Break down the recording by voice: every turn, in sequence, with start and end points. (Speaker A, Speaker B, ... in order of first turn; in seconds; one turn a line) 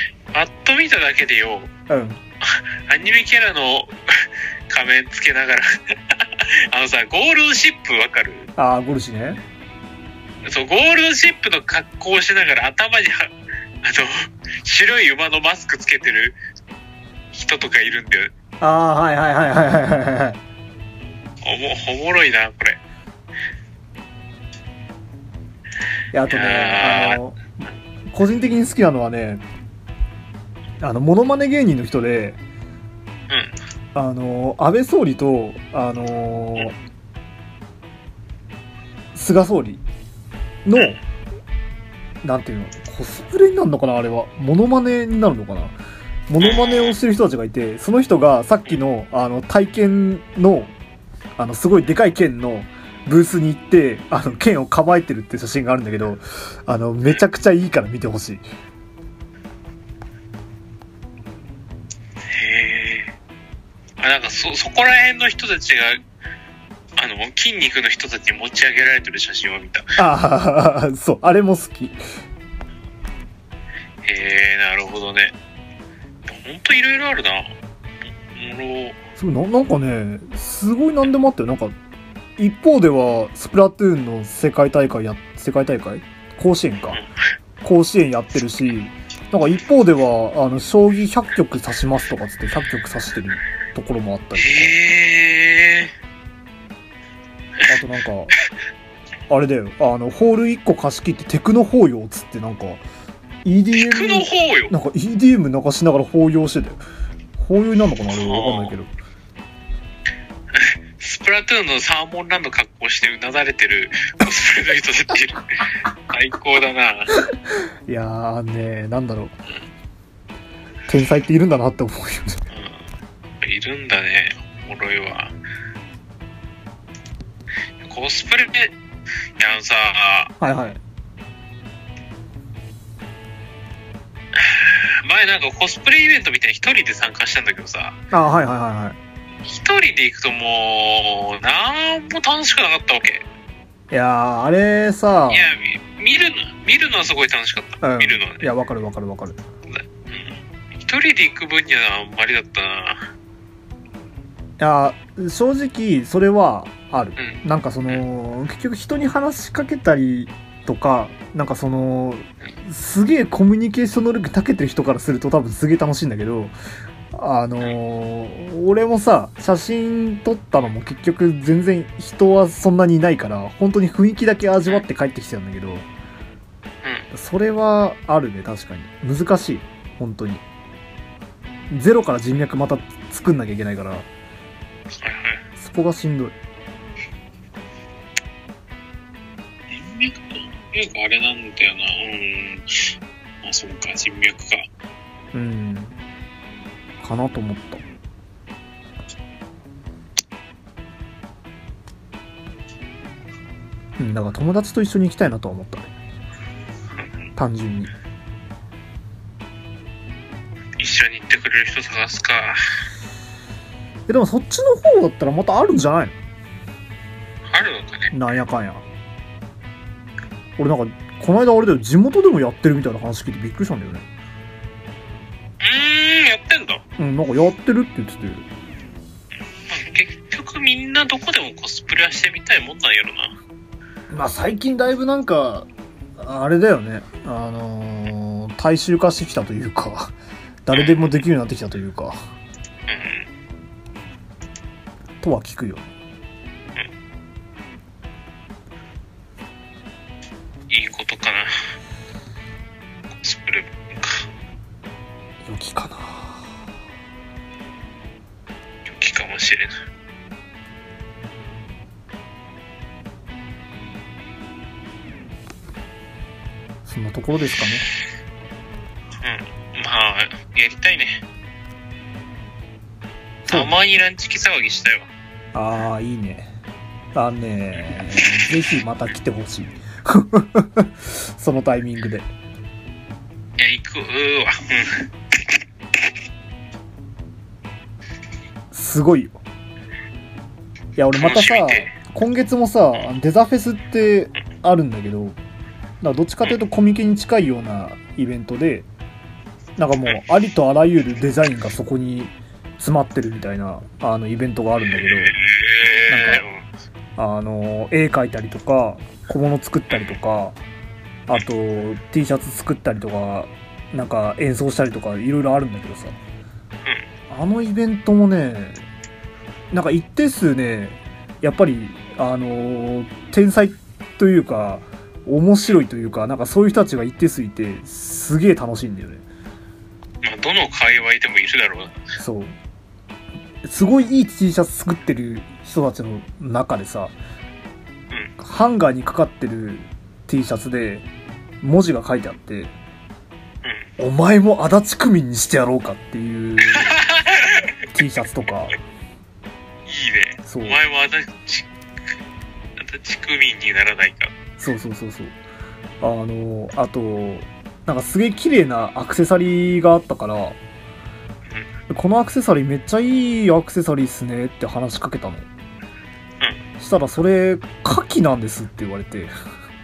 Speaker A: 0.3-1.7
Speaker B: 1.9-2.2
Speaker A: 2.4-8.5
Speaker B: 8.6-9.4
Speaker A: 10.4-13.3
Speaker A: 13.8-16.4
Speaker A: 17.3-18.3
Speaker B: 18.6-20.4
Speaker A: 21.4-22.8
Speaker B: 26.1-29.4
Speaker A: 26.3-27.2
Speaker B: 30.8-32.4
Speaker A: 33.3-33.5
Speaker B: 33.9-36.7
Speaker B: 39.1-39.8
Speaker B: 40.6-41.0
Speaker B: 42.2-45.8
Speaker B: 46.3-50.7
Speaker A: 46.4-47.0
Speaker B: 51.4-58.4
Speaker A: 62.3-63.1
Speaker A: 64.0-66.0
Speaker A: 67.0-69.9
Speaker B: 70.0-72.0
Speaker A: 74.0-75.3
Speaker A: 76.2-79.0
Speaker B: 79.2-81.8
Speaker B: 82.4-87.0
Speaker B: 87.6-94.8
Speaker A: 94.4-95.9
Speaker B: 97.7-98.3
Speaker B: 99.3-102.8
Speaker B: 103.4-106.8
Speaker A: 103.7-104.7
Speaker B: 107.4-108.9
Speaker A: 108.1-108.7
Speaker A: 110.5-117.1
Speaker B: 117.9-119.3
Speaker B: 120.9-122.4
Speaker A: 122.5-122.8
Speaker A: 123.4-125.3
Speaker A: 127.8-128.7
Speaker A: 129.4-130.3
Speaker B: 130.4-130.8
Speaker A: 134.3-138.0
Speaker B: 138.1-139.0
Speaker A: 139.4-143.2
Speaker B: 143.9-145.5
Speaker A: 145.3-148.5
Speaker B: 147.8-149.4
Speaker A: 149.7-153.1
Speaker B: 154.6-166.5
Speaker A: 157.2-158.0
Speaker B: 167.1-175.9
Speaker A: 176.8-177.1
Speaker B: 177.1-180.4
Speaker B: 181.7-184.1
Speaker A: 184.9-185.4
Speaker B: 185.6-186.3
Speaker A: 189.7-192.9
Speaker A: 193.4-194.7
Speaker B: 195.3-195.9
Speaker B: 197.0-197.8
Speaker B: 204.0-205.9
Speaker B: 207.3-207.9
Speaker A: 210.8-212.6
Speaker B: 214.1-216.1
Speaker A: 217.5-218.1
Speaker B: 218.1-218.8
Speaker B: 220.6-224.1
Speaker A: 225.6-226.8
Speaker B: 227.0-228.4
Speaker A: 229.7-233.3
Speaker B: 234.1-235.7
Speaker B: 236.2-240.1
Speaker B: 240.7-242.3
Speaker A: 240.7-241.2
Speaker A: 242.9-243.3
Speaker B: 245.2-245.9
Speaker A: 250.7-251.5
Speaker A: 253.2-254.3
Speaker B: 255.4-256.5
Speaker A: 258.9-259.7
Speaker B: 266.8-267.9
Speaker A: 269.2-271.2
Speaker B: 273.5-273.7
Speaker A: 273.5-275.1
Speaker B: 275.5-276.5
Speaker B: 277.1-282.3
Speaker A: 283.6-285.1
Speaker B: 288.7-289.4
Speaker B: 290.9-295.4
Speaker A: 291.1-291.9
Speaker B: 296.0-298.9
Speaker B: 299.8-305.4
Speaker A: 304.8-306.6
Speaker B: 306.1-306.4
Speaker B: 307.2-310.6
Speaker A: 309.9-310.2
Speaker B: 311.3-316.2
Speaker B: 317.3-318.8
Speaker B: 319.7-329.2
Speaker A: 330.2-332.0
Speaker B: 332.2-332.6
Speaker B: 333.6-337.1
Speaker B: 338.4-341.0
Speaker B: 341.6-342.7
Speaker B: 344.0-346.9
Speaker A: 346.7-347.8
Speaker B: 347.9-348.8
Speaker A: 349.9-351.7
Speaker B: 350.4-350.8
Speaker A: 352.8-354.3
Speaker B: 354.6-355.4
Speaker B: 356.0-360.6
Speaker B: 361.9-365.5
Speaker B: 366.8-369.3